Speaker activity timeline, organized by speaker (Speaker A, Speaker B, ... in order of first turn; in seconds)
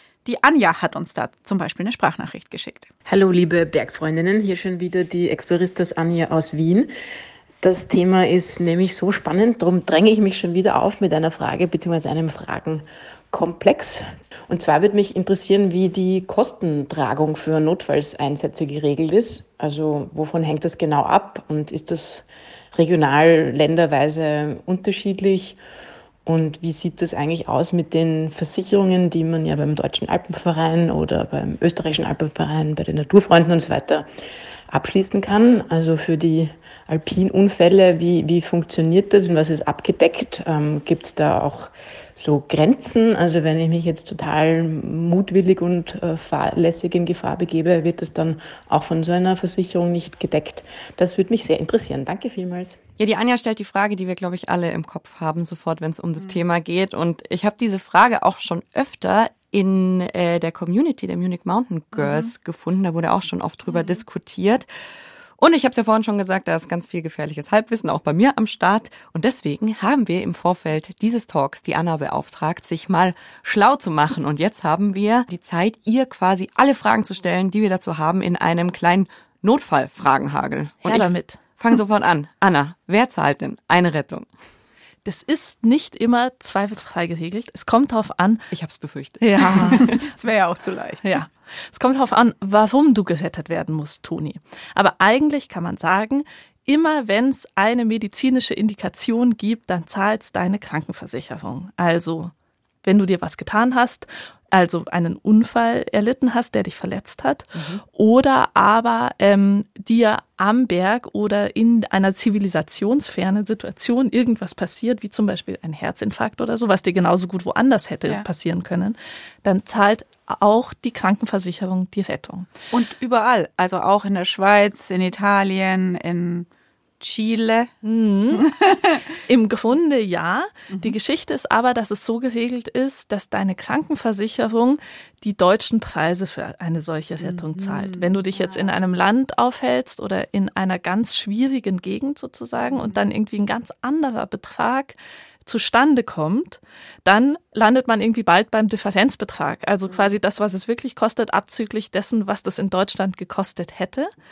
Speaker A: 0.2-2.9, 62.0-62.3, 63.7-64.0, 89.8-91.2, 122.7-126.5, 127.0-127.7, 128.3-129.1, 137.2-138.6, 142.7-142.9
Speaker B: 3.1-6.9, 7.6-25.6, 26.3-34.1, 34.7-52.8
Speaker C: 53.0-64.7, 65.4-84.3, 88.5-90.0, 107.5-107.8
Speaker D: 80.8-81.4, 85.0-88.5, 89.2-89.9, 91.0-102.3, 102.8-122.5, 127.8-128.5, 129.3-154.1